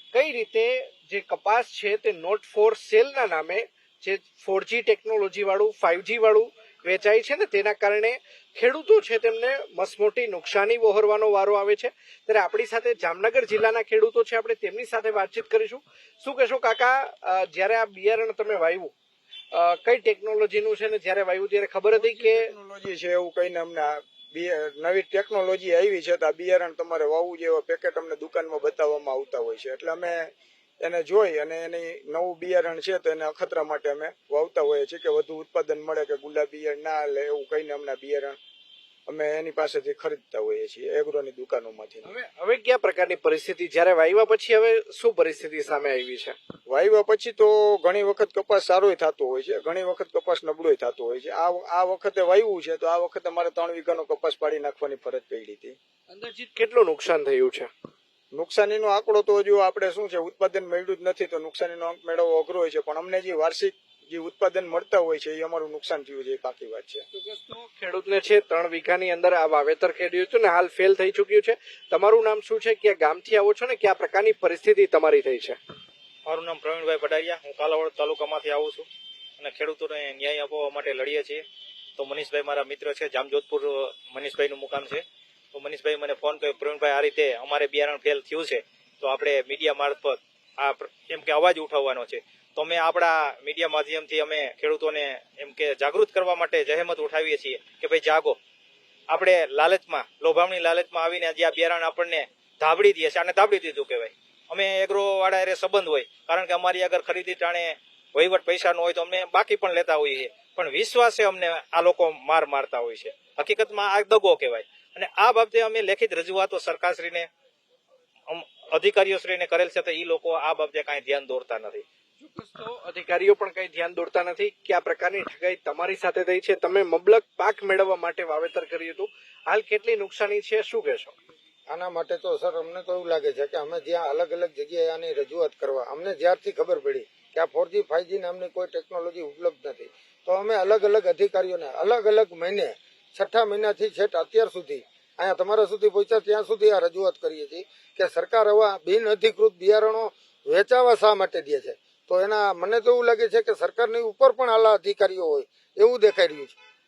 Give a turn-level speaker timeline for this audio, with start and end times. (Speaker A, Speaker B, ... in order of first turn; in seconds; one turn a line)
Speaker A: 0.1-18.9
Speaker A: 19.5-22.5
Speaker B: 21.9-38.4
Speaker B: 39.1-42.1
Speaker A: 42.0-46.4
Speaker B: 46.7-55.8
Speaker A: 56.1-57.7
Speaker B: 58.3-67.0
Speaker A: 67.1-75.6
Speaker C: 76.2-78.8
Speaker C: 79.4-81.4
Speaker C: 82.0-98.4
Speaker C: 99.1-117.3
Speaker C: 118.3-121.8
Speaker A: 122.2-131.1
Speaker D: 131.7-156.6